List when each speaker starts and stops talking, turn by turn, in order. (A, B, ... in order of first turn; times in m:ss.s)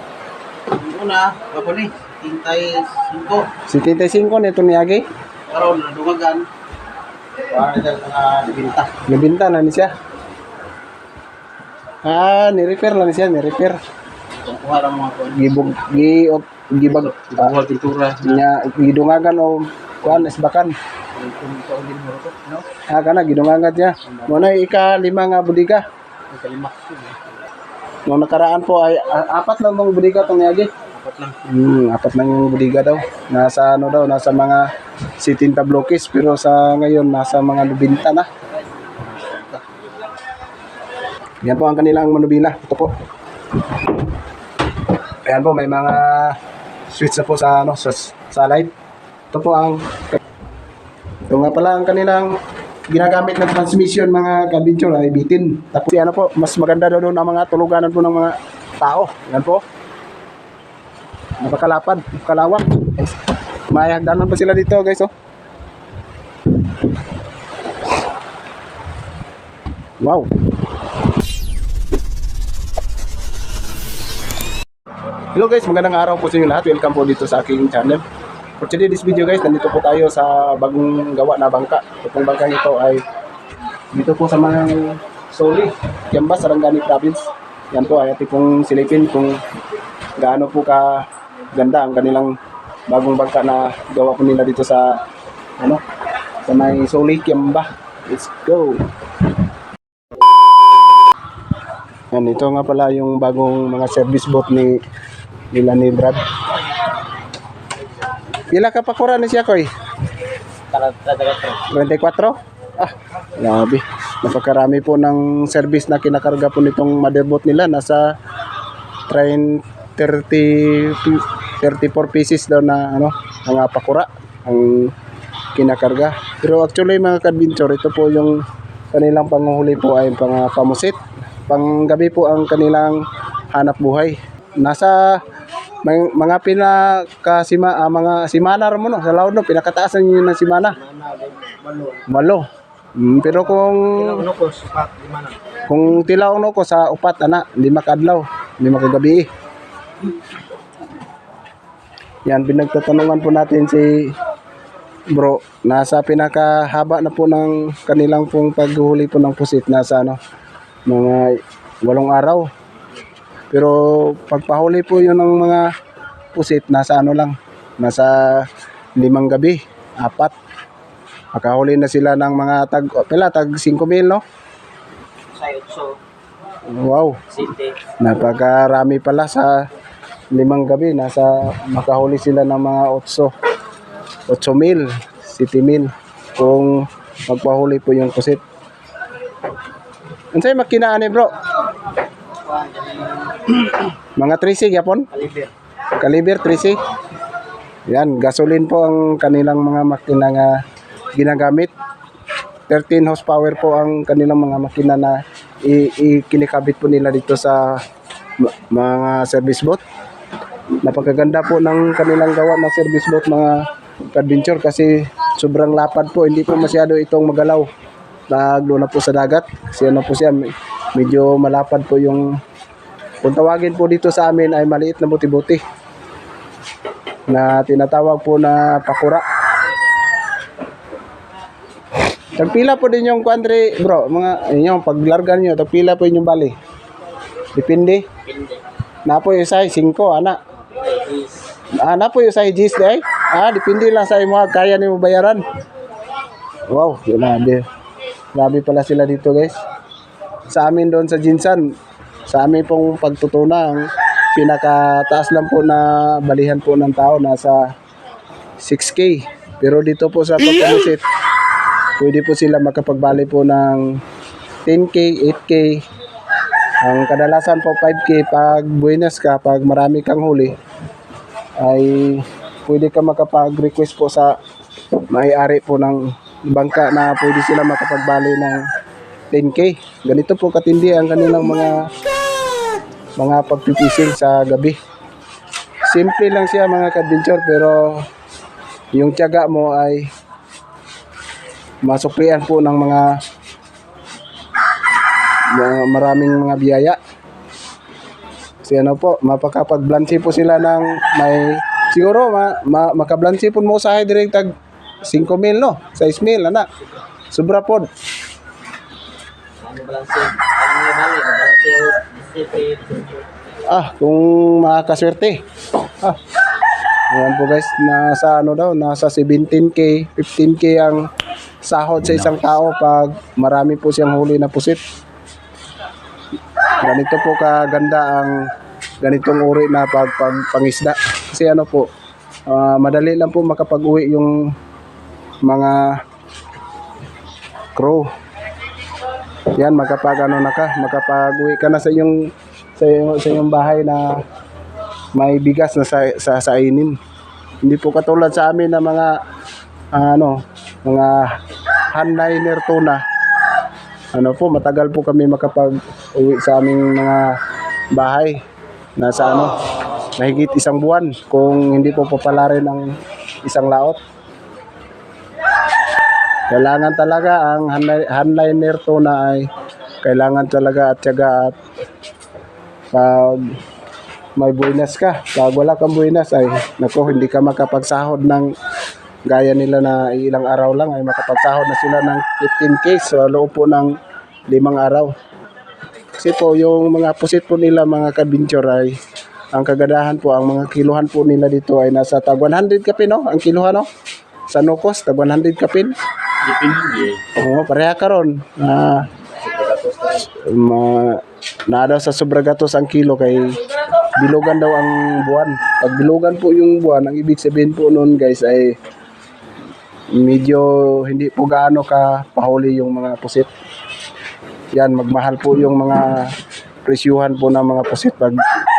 0:00.7-0:03.5 A
0:03.7-0:05.0 B
0:05.5-0:06.4 A
0:07.5-0:08.9 A
0:09.0-0:09.9 B
0:12.0-0:13.8 B
0:14.4-0:15.4 A
0:15.3-0:17.5 B
0:17.1-0:18.4 A
0:18.2-0:20.7 B
0:21.2-0:22.7 A
0:22.9-0:25.8 B
0:26.3-0:27.3 A
0:28.0-0:30.7 B
0:30.9-0:31.4 A
0:31.4-0:34.7 B
0:35.2-0:38.3 B
0:39.1-0:39.6 A
0:41.4-0:42.9 B
0:45.2-0:46.4 B
0:46.9-0:48.7 B
0:49.3-0:50.2 B
0:51.3-0:52.3 B
0:52.9-0:59.6 B
1:01.4-1:03.1 B
1:03.7-1:05.1 B
1:10.0-1:10.3 B
1:15.3-1:18.0 B
1:18.6-1:23.0 B
1:23.9-1:29.4 B
1:30.2-1:32.3 B
1:32.9-1:35.0 B
1:35.6-1:35.8 B
1:36.4-1:38.8 B
1:42.1-1:44.8 B
1:45.5-1:46.2 B
1:48.5-1:49.7 B
1:50.7-1:51.6 A
1:51.5-1:58.1 B
1:59.1-2:04.9 B
2:05.5-2:13.0 B
2:13.5-2:15.2 B
2:15.8-2:20.8 B
2:20.8-2:22.0 A
2:22.0-2:24.3 B
2:24.0-2:25.3 A
2:25.7-2:29.3 B
2:32.2-2:34.2 B
2:35.1-2:40.2 B
2:40.8-2:42.5 B
2:43.5-2:45.7 B
2:46.3-2:50.3 B
2:51.3-2:54.2 B
2:55.3-2:56.0 A
2:56.7-2:57.2 B
2:57.3-2:57.7 A
2:57.9-2:59.6 B
3:00.3-3:03.3 B
3:04.3-3:08.4 B
3:10.3-3:11.4 B
3:12.5-3:13.4 A
3:14.1-3:15.1 B
3:15.2-3:15.5 A
3:16.0-3:16.8 B
3:17.9-3:20.6 B
3:21.1-3:21.7 B
3:22.7-3:27.8 B
3:28.4-3:29.8 B
3:30.8-3:37.7 B
3:38.3-3:42.4 B
3:43.2-3:45.6 B
3:47.3-3:49.2 B
3:52.3-3:56.5 B
3:57.5-3:58.1 B
3:59.0-4:00.4 B
4:00.9-4:01.3 A
4:01.8-4:05.5 B
4:06.7-4:07.7 B
4:08.3-4:09.6 B
4:10.5-4:11.7 B
4:12.3-4:17.7 B
4:18.6-4:21.0 B
4:22.0-4:24.0 B
4:24.6-4:25.8 B
4:26.8-4:30.6 B
4:31.6-4:34.4 B
4:35.1-4:38.6 B
4:39.3-4:41.9 B
4:43.2-4:44.8 B
4:45.9-4:48.0 B
4:48.9-4:50.1 B
4:51.8-4:53.1 B
4:55.5-4:57.0 B
4:58.6-5:04.5 B
5:05.0-5:06.7 B
5:07.3-5:07.9 B
5:09.6-5:13.2 A
5:13.6-5:15.4 B
5:17.1-5:21.0 B
5:21.6-5:24.8 B
5:26.8-5:28.5 B
5:29.0-5:31.9 B
5:32.5-5:34.5 B
5:35.4-5:36.0 B
5:37.7-5:38.1 B
5:39.5-5:44.2 B
5:45.1-5:47.0 B
5:47.6-5:49.2 B
5:49.9-5:51.4 B
5:51.9-5:53.0 B
5:54.1-5:57.4 B
5:57.9-5:58.4 B
5:59.0-5:59.6 B
6:00.1-6:04.0 B
6:06.5-6:09.5 B
6:10.0-6:11.6 B
6:12.9-6:13.6 B
6:14.4-6:18.5 B
6:19.2-6:24.0 B
6:24.5-6:25.1 B
6:26.2-6:29.0 B
6:29.5-6:33.9 B
6:34.5-6:35.9 B
6:36.5-6:37.2 A
6:37.2-6:39.1 B
6:39.6-6:40.0 A
6:40.1-6:48.8 B
6:50.1-6:53.5 B
6:54.7-6:58.4 B